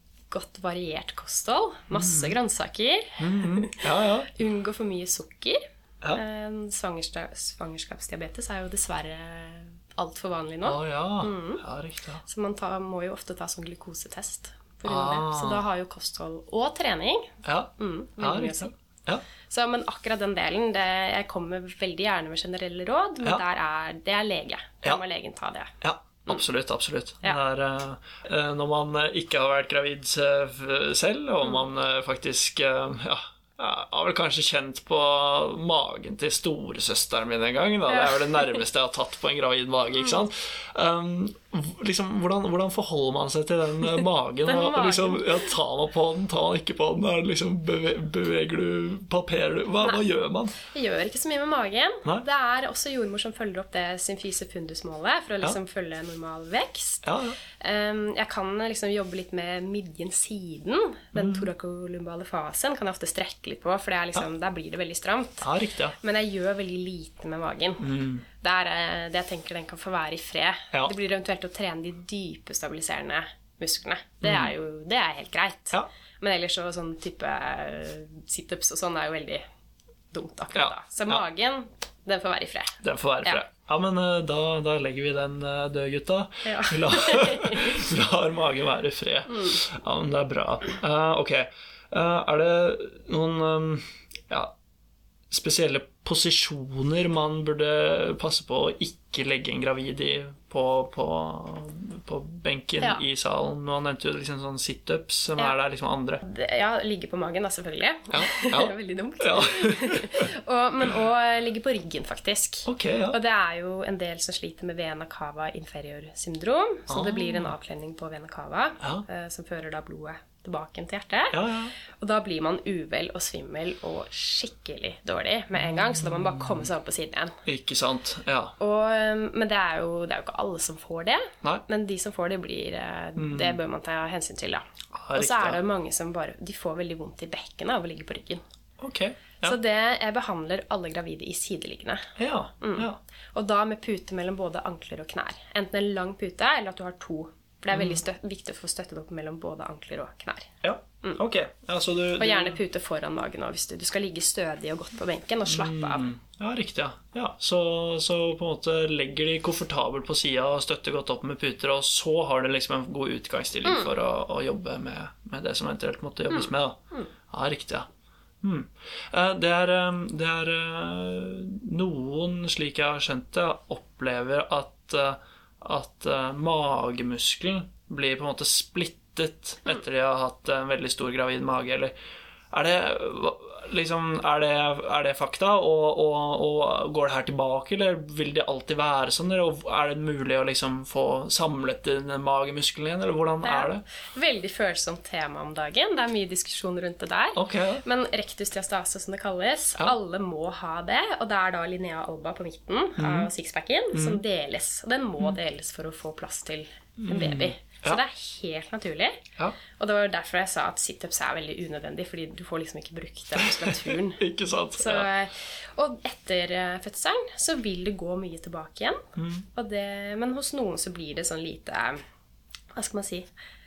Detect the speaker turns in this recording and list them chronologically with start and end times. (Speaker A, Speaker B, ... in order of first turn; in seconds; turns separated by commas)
Speaker A: 0.3-11.6, Speaker B: 1.9-2.3, Speaker B: 3.2-4.3, Speaker B: 10.7-12.2, Speaker A: 12.2-18.7, Speaker B: 14.8-15.6, Speaker B: 17.4-19.2, Speaker A: 19.5-25.8, Speaker B: 25.8-50.5, Speaker A: 37.9-38.5, Speaker A: 44.5-45.5, Speaker A: 50.5-57.1, Speaker B: 57.0-57.4, Speaker A: 57.6-65.5, Speaker B: 61.1-61.5, Speaker B: 65.4-66.0, Speaker A: 66.0-79.4, Speaker B: 67.8-68.2, Speaker B: 74.2-74.5, Speaker A: 80.1-83.4, Speaker B: 80.5-81.2, Speaker B: 82.8-94.5, Speaker A: 86.5-87.8, Speaker A: 89.3-89.6, Speaker B: 95.3-106.2, Speaker A: 106.2-127.4, Speaker B: 108.1-110.3, Speaker B: 112.7-113.2, Speaker B: 116.9-117.5, Speaker B: 121.3-121.7, Speaker B: 125.6-126.7, Speaker B: 127.5-128.5, Speaker A: 128.6-134.6, Speaker B: 133.2-133.6, Speaker B: 134.9-135.6, Speaker A: 135.2-138.4, Speaker B: 138.8-139.6, Speaker A: 139.4-151.2, Speaker B: 142.2-143.0, Speaker B: 147.7-148.0, Speaker B: 150.6-152.6, Speaker A: 152.2-156.1, Speaker B: 155.5-167.9, Speaker A: 163.7-163.9, Speaker A: 166.3-167.1, Speaker B: 168.4-181.9, Speaker B: 182.5-193.8, Speaker A: 193.4-214.2, Speaker B: 197.3-197.8, Speaker B: 203.0-203.3, Speaker B: 203.9-204.2, Speaker B: 207.0-208.0, Speaker B: 213.4-215.1, Speaker A: 214.8-222.0, Speaker B: 219.2-219.5, Speaker A: 222.8-223.3